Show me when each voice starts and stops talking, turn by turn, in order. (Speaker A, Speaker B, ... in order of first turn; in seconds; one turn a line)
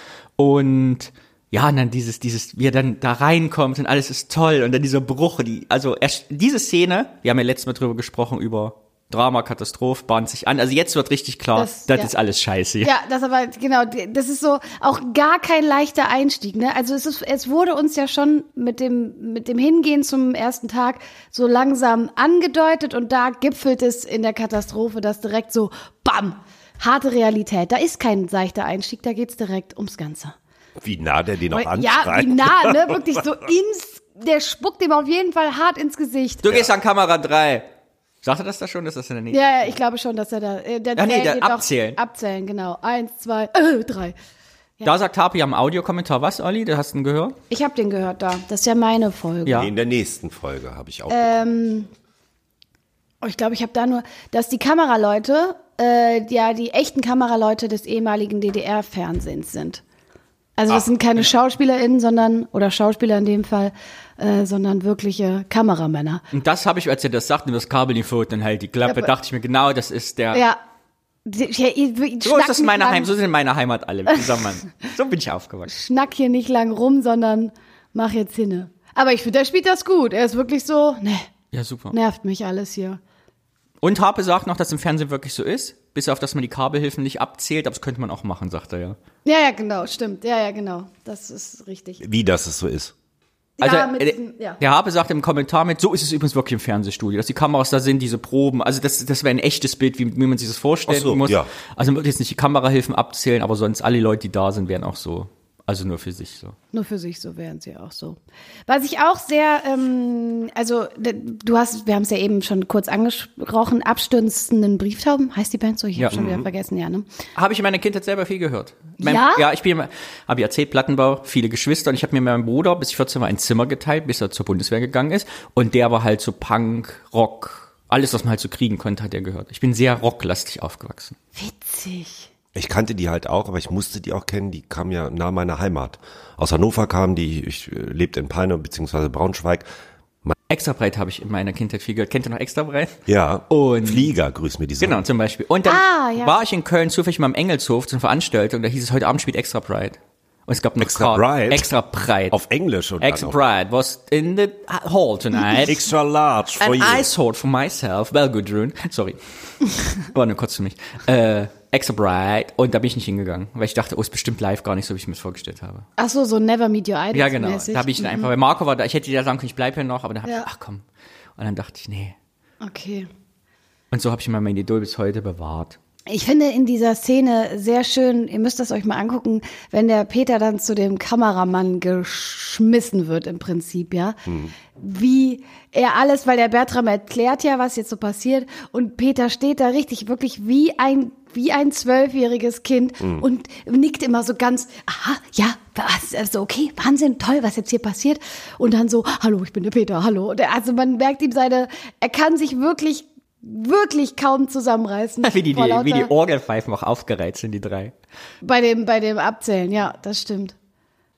Speaker A: 0.4-12.9
Speaker B: 11.6-12.1
Speaker B: 12.8-30.3
Speaker C: 30.8-33.2
Speaker B: 31.5-36.4
Speaker A: 36.4-37.7
Speaker A: 38.2-39.7
Speaker B: 39.3-44.1
Speaker A: 41.0-42.0
Speaker A: 44.8-47.4
Speaker B: 47.5-49.7
Speaker C: 49.5-51.4
Speaker B: 51.1-51.9
Speaker B: 53.2-59.8
Speaker B: 60.6-66.2
Speaker A: 66.3-70.4
Speaker B: 68.8-69.1
Speaker B: 70.3-70.6
Speaker B: 71.2-73.1
Speaker A: 72.2-75.7
Speaker B: 75.7-81.3
Speaker A: 81.5-81.9
Speaker B: 81.9-83.0
Speaker A: 83.8-89.0
Speaker B: 89.2-92.0
Speaker C: 92.0-92.9
Speaker B: 93.6-94.6
Speaker A: 93.6-106.5
Speaker C: 100.9-101.5
Speaker B: 106.7-117.1
Speaker A: 116.0-116.2
Speaker C: 116.1-116.4
Speaker A: 117.3-131.2
Speaker B: 119.0-119.4
Speaker B: 131.3-132.3
Speaker C: 132.5-139.7
Speaker A: 140.5-143.0
Speaker C: 143.1-145.0
Speaker A: 143.5-144.1
Speaker A: 144.8-152.4
Speaker B: 145.7-146.4
Speaker C: 150.8-151.7
Speaker C: 152.3-153.4
Speaker A: 153.0-155.8
Speaker C: 155.6-157.1
Speaker A: 156.6-165.8
Speaker B: 166.0-168.3
Speaker A: 167.1-170.8
Speaker A: 171.4-172.2
Speaker B: 172.6-173.1
Speaker A: 173.9-175.8
Speaker B: 176.1-184.2
Speaker C: 184.2-184.5
Speaker B: 184.7-206.1
Speaker A: 205.2-207.9
Speaker B: 208.4-210.6